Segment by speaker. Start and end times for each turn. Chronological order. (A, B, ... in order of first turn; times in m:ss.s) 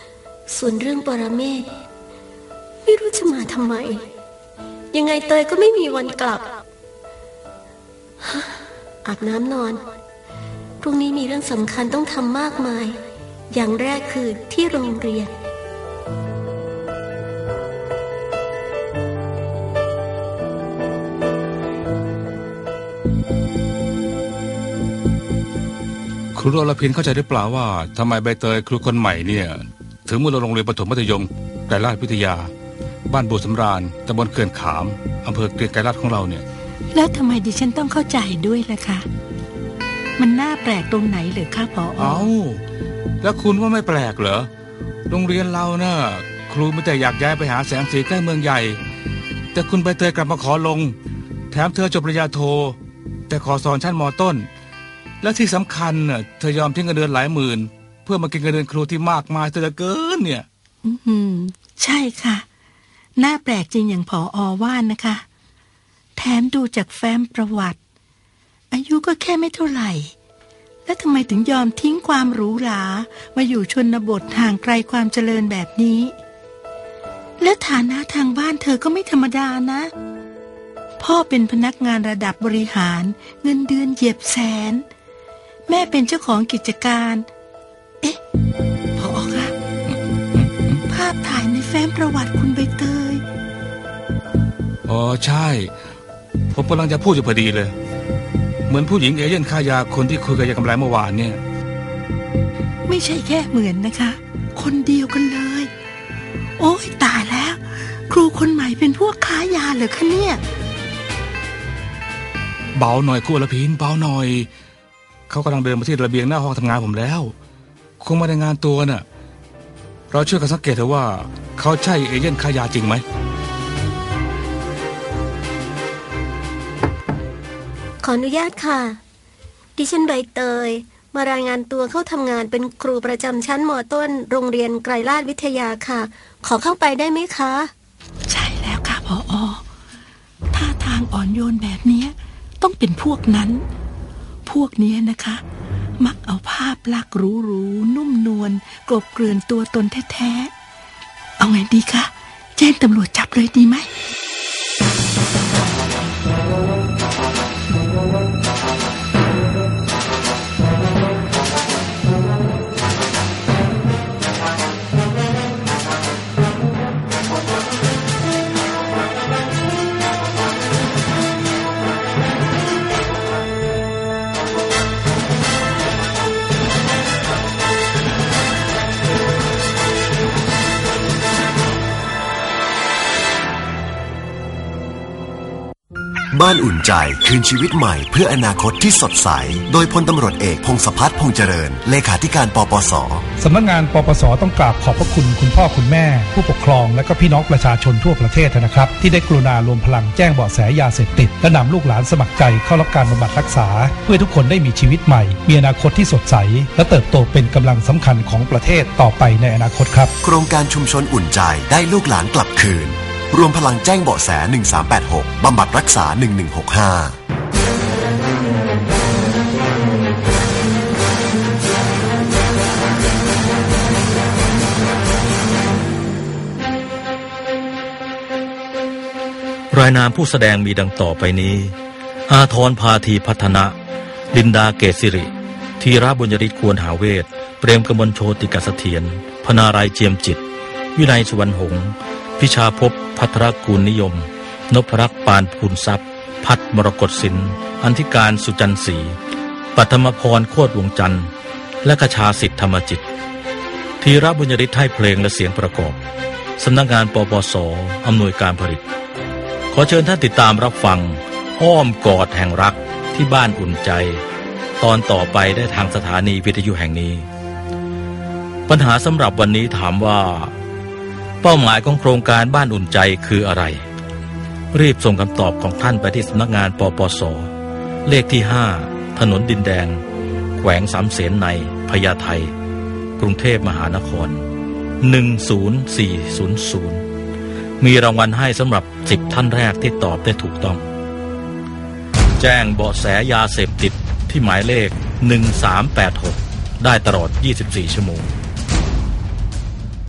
0:00.5-0:01.7 A
0:02.8-0:04.0 A
0:04.9-0:06.6 A
0:08.2-0:09.9 A
0:10.8-0:13.0 A
0:13.5-0:15.3 A
0:26.3-0:32.5 B
0:33.1-0:36.4 B
0:36.9-0:39.0 C
0:40.2-0:42.3 C
0:42.0-0:42.6 B
0:43.2-0:44.5 B
0:45.1-0:48.8 B
0:49.5-0:50.9 B
0:51.5-0:52.8 B
0:53.3-0:54.5 B
0:55.2-1:00.4 B
1:00.8-1:02.4 C
1:03.2-1:05.2 C
1:06.2-1:07.8 C
1:08.7-1:10.1 C
1:10.8-1:16.2 C
1:17.4-1:19.9 C
1:21.0-1:24.8 C
1:25.7-1:27.3 C
1:29.0-1:29.5 C
1:29.9-1:30.8 B
1:30.9-1:33.2 C
1:34.9-1:35.8 B
1:36.5-1:37.7 B
1:38.7-1:41.4 B
1:42.9-1:45.7 C
1:46.6-1:50.4 C
1:52.8-1:54.5 B
1:55.3-1:57.3 B
1:58.0-1:59.0 B
2:00.1-2:03.0 B
2:08.0-2:09.0 A
2:09.8-2:17.7 A
2:18.3-2:19.6 C
2:20.5-2:23.6 C
2:24.4-2:25.4 C
2:26.0-2:30.5 C
2:31.4-2:33.9 C
3:06.3-3:13.2 D
3:13.4-3:30.1 E
3:30.2-3:37.2 D
3:49.7-3:51.8 F
3:52.3-3:53.7 F
3:54.3-4:00.4 F
4:00.9-4:09.2 F
4:09.7-4:11.3 F
4:11.8-4:13.0 F
4:14.0-4:16.0 F
4:16.6-4:18.8 F
4:19.7-4:24.2 F
4:24.8-4:27.3 F
4:28.7-4:30.5 F
4:31.4-4:33.8 F
4:34.7-4:37.5 F
4:38.0-4:40.0 F
4:40.6-4:42.5 F
4:43.2-4:44.4 F
4:45.0-4:47.0 F
4:47.8-4:50.8 F
4:52.4-4:58.3 F